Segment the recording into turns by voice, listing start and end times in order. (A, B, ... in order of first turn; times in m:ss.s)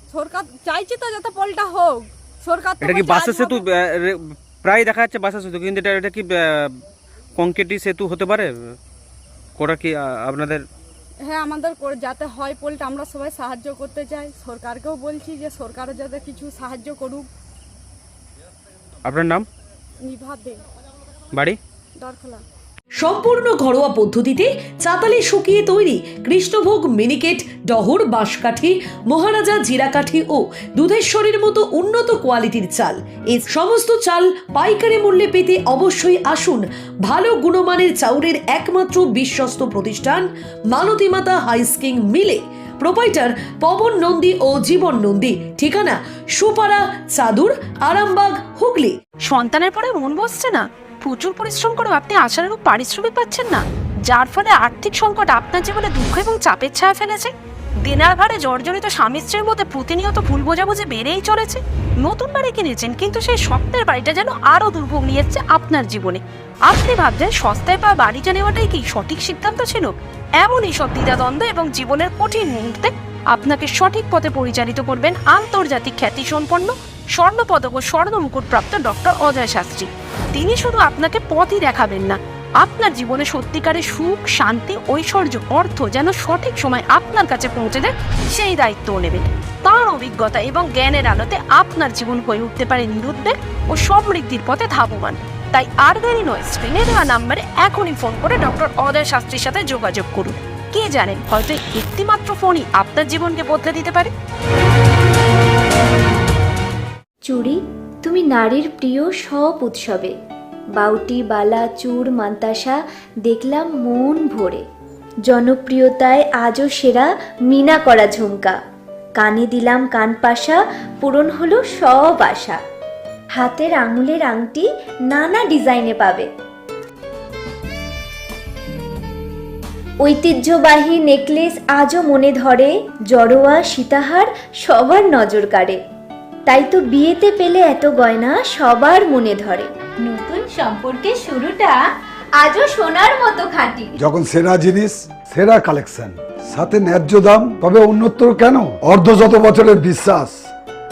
0:00.1-0:03.6 A
0:02.8-0:06.8 B
0:07.4-0:08.8 B
0:09.6-0:10.6 B
0:11.3-0:17.3 A
0:19.0-0:19.4 B
0:20.0-0:20.6 A
0:21.3-0:21.6 B
0:22.0-0:22.4 A
0:23.0-0:48.9 C
0:49.2-0:57.3 D
0:57.8-1:44.1 D
1:47.2-1:50.1 E
1:50.8-1:54.6 E
1:55.2-1:58.6 E
1:59.2-2:02.6 E
2:03.4-2:06.3 E
2:10.0-2:15.8 E
2:16.5-2:21.8 E
2:22.4-2:23.9 E
2:24.0-2:30.4 F